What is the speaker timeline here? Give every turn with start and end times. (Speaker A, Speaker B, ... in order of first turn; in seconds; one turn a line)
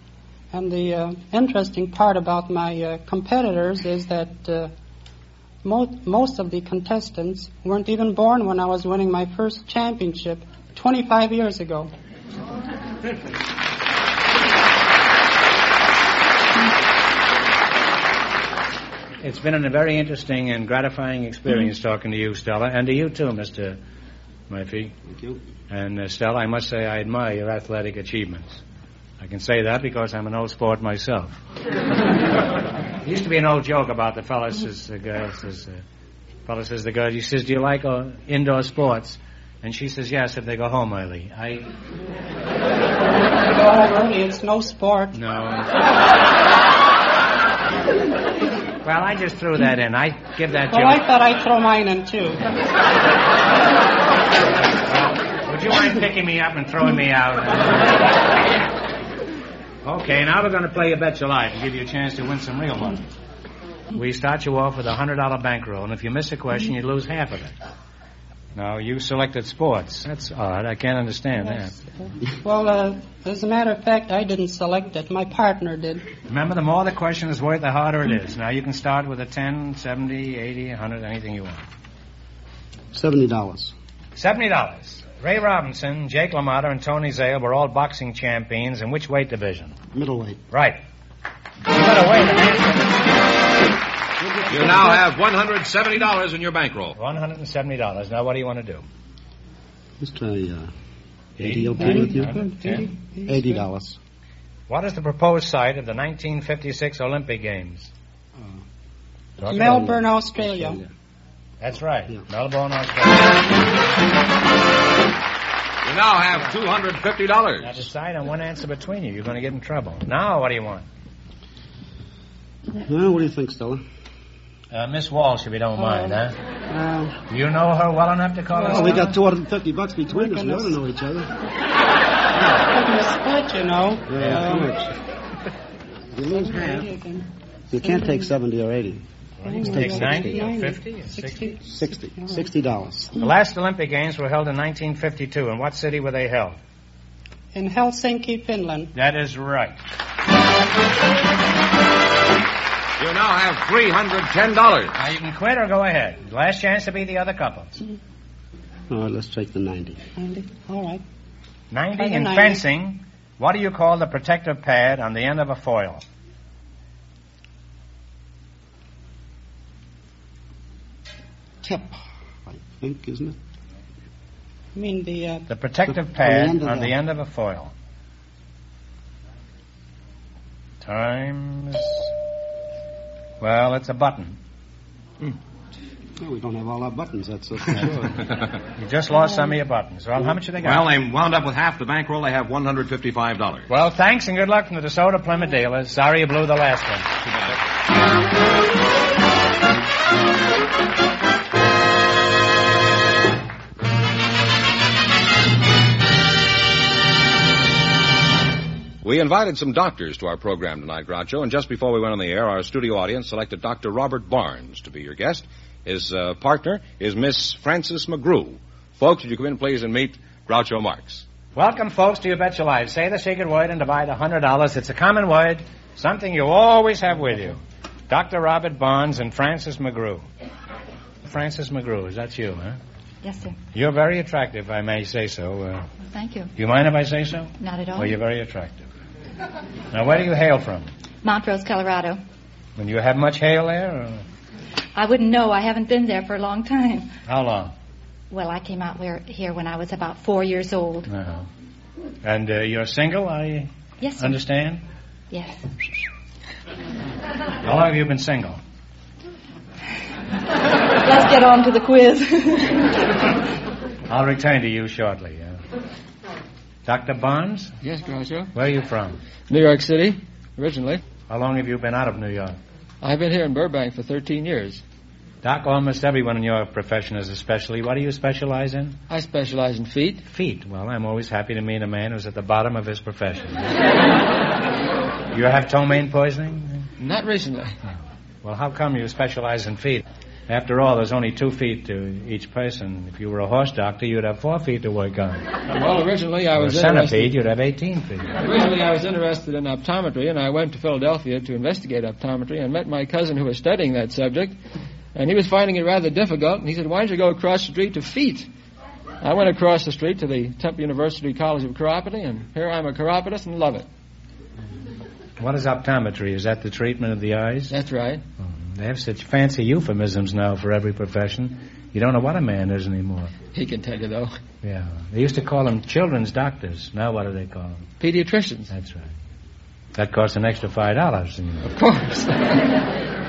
Speaker A: 0.5-4.7
Speaker A: 5.6-11.9
Speaker B: 19.2-23.8
Speaker B: 24.5-24.9
Speaker C: 25.1-25.4
Speaker B: 25.7-28.6
Speaker B: 29.2-31.4
Speaker B: 33.0-35.8
Speaker B: 36.5-41.7
Speaker A: 43.4-45.2
Speaker B: 45.1-45.9
Speaker B: 48.8-51.0
Speaker A: 50.7-52.5
Speaker B: 54.7-58.0
Speaker B: 59.8-63.1
Speaker B: 63.9-67.5
Speaker B: 68.5-71.8
Speaker A: 72.3-76.1
Speaker B: 76.3-81.7
Speaker C: 82.9-83.7
Speaker B: 84.2-89.8
Speaker C: 89.9-90.4
Speaker B: 90.5-90.8
Speaker B: 91.7-93.0
Speaker C: 94.2-95.0
Speaker D: 94.5-97.0
Speaker B: 97.0-98.8
Speaker C: 100.0-100.7
Speaker B: 101.4-102.8
Speaker C: 101.4-104.0
Speaker A: 101.8-103.7
Speaker B: 104.7-107.9
Speaker C: 109.4-110.9
Speaker B: 109.4-109.8
Speaker A: 109.5-110.8
Speaker B: 111.6-113.5
Speaker D: 115.8-117.8
Speaker B: 117.6-120.9
Speaker C: 122.7-123.8
Speaker B: 124.7-126.4
Speaker C: 126.7-127.2
Speaker B: 127.3-129.1
Speaker A: 128.5-129.1
Speaker C: 128.6-131.3
Speaker A: 130.1-130.8
Speaker A: 132.4-134.8
Speaker C: 134.1-134.9
Speaker C: 136.1-136.9
Speaker A: 136.3-138.3
Speaker C: 137.7-139.0
Speaker B: 139.4-141.3
Speaker A: 139.4-142.5
Speaker C: 139.6-140.4
Speaker C: 141.7-143.2
Speaker B: 143.2-146.6
Speaker A: 147.5-148.9
Speaker B: 148.9-149.8
Speaker D: 153.0-155.0
Speaker B: 155.0-157.8
Speaker C: 158.9-160.0
Speaker A: 160.2-161.0
Speaker B: 161.7-166.0
Speaker A: 162.0-162.6
Speaker C: 171.6-173.4
Speaker A: 174.8-175.5
Speaker B: 175.5-177.7
Speaker C: 175.9-177.0
Speaker B: 180.8-182.1
Speaker B: 183.4-184.4
Speaker C: 186.2-188.3
Speaker B: 188.8-190.9
Speaker D: 190.6-193.7
Speaker B: 193.7-197.1
Speaker D: 209.0-221.2
Speaker B: 221.6-230.2
Speaker B: 231.2-232.8
Speaker E: 233.2-233.6
Speaker B: 233.7-235.9
Speaker E: 236.1-236.5
Speaker B: 236.6-238.9
Speaker E: 237.6-238.2
Speaker B: 239.9-240.9
Speaker E: 241.2-242.2
Speaker B: 242.8-244.2
Speaker E: 245.0-247.1
Speaker B: 247.3-247.7
Speaker E: 248.3-251.1
Speaker B: 251.1-251.5
Speaker B: 252.2-254.8
Speaker E: 254.0-254.4
Speaker E: 255.3-255.6
Speaker B: 257.6-258.6
Speaker E: 261.0-263.0
Speaker B: 264.1-265.6
Speaker B: 266.9-267.7
Speaker F: 267.8-268.5
Speaker B: 268.5-269.2
Speaker F: 269.5-271.0
Speaker B: 271.3-272.6
Speaker F: 273.0-274.8
Speaker B: 275.4-279.0
Speaker F: 279.1-280.2
Speaker B: 280.3-283.8
Speaker B: 285.3-286.9
Speaker F: 287.0-287.8
Speaker B: 288.4-295.5
Speaker F: 295.7-297.3
Speaker B: 296.6-298.4
Speaker F: 298.4-304.6
Speaker F: 305.1-308.5
Speaker F: 309.2-313.9
Speaker B: 315.4-317.7
Speaker F: 317.7-318.2
Speaker B: 318.4-323.3
Speaker F: 323.5-324.3
Speaker B: 324.6-327.9
Speaker F: 328.0-328.7
Speaker B: 328.7-329.1
Speaker B: 329.9-331.7
Speaker F: 331.6-332.6